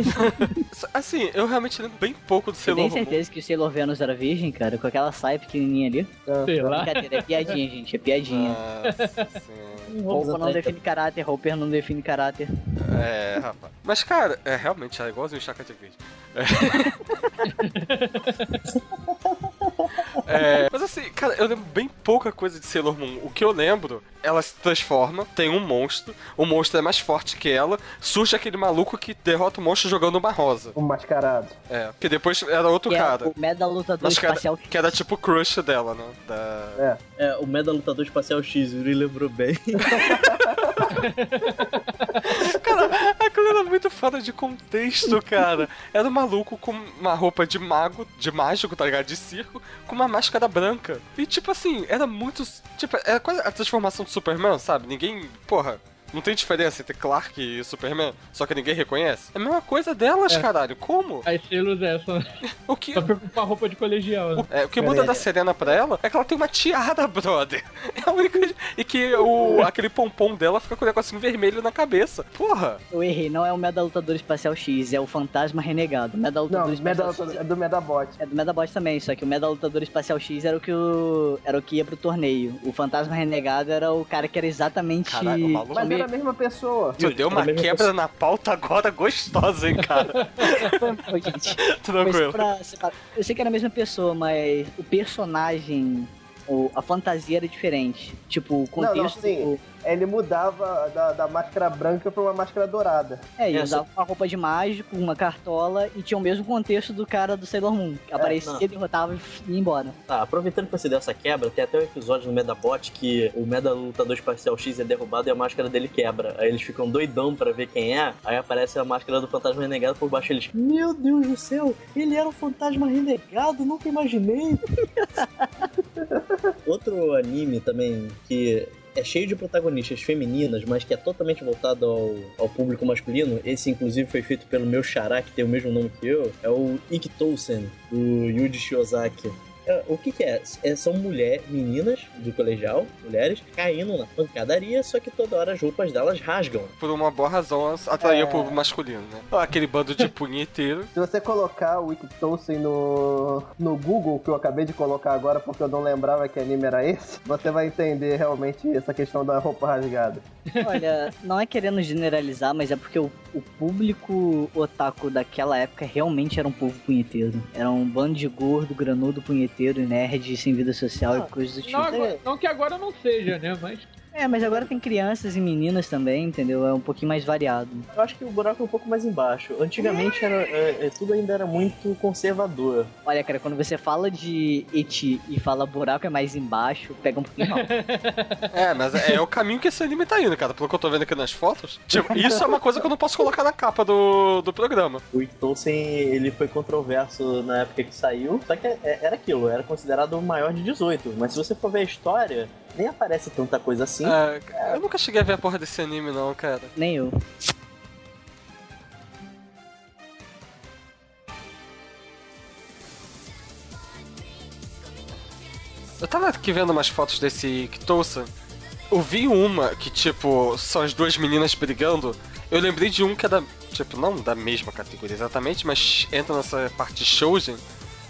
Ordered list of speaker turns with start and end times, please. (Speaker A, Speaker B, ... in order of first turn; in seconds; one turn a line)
Speaker A: 0.1-3.2
Speaker B: 2.6-6.1
Speaker C: 6.3-6.8
Speaker D: 6.4-7.2
Speaker B: 6.7-8.6
Speaker A: 8.2-9.9
Speaker D: 8.8-9.2
Speaker E: 9.9-10.8
Speaker B: 10.1-12.5
Speaker A: 12.8-17.2
Speaker D: 17.4-18.6
Speaker E: 18.7-20.2
Speaker A: 20.2-30.7
Speaker C: 30.7-31.6
Speaker A: 31.7-33.3
Speaker B: 32.9-34.8
Speaker A: 34.0-36.8
Speaker E: 37.2-40.0
Speaker C: 39.9-40.9
Speaker D: 40.9-42.2
Speaker A: 42.2-61.2
Speaker D: 61.2-62.4
Speaker A: 62.6-63.1
Speaker D: 62.9-64.5
Speaker A: 64.4-72.8
Speaker C: 64.8-65.2
Speaker B: 72.9-77.4
Speaker C: 76.5-78.2
Speaker B: 78.2-86.0
Speaker A: 85.1-85.9
Speaker C: 85.7-87.0
Speaker A: 87.0-90.9
Speaker E: 87.0-87.9
Speaker D: 90.0-90.7
Speaker B: 90.5-99.6
Speaker A: 91.6-92.5
Speaker C: 98.8-103.2
Speaker B: 103.4-110.0
Speaker E: 103.5-103.8
Speaker E: 108.2-108.6
Speaker E: 110.1-124.6
Speaker B: 125.2-125.5
Speaker E: 126.7-146.7
Speaker A: 146.8-150.9
Speaker C: 148.0-148.6
Speaker C: 150.9-160.2
Speaker D: 160.5-160.8
Speaker B: 160.6-172.1
Speaker E: 171.0-172.2
Speaker D: 171.7-173.9
Speaker B: 174.1-177.9
Speaker E: 174.3-174.7
Speaker E: 177.9-182.9
Speaker B: 183.1-187.6
Speaker D: 187.4-189.1
Speaker A: 188.5-195.0
Speaker E: 195.1-204.8
Speaker A: 204.0-206.7
Speaker B: 206.8-207.1
Speaker A: 216.0-218.3
Speaker A: 218.9-227.6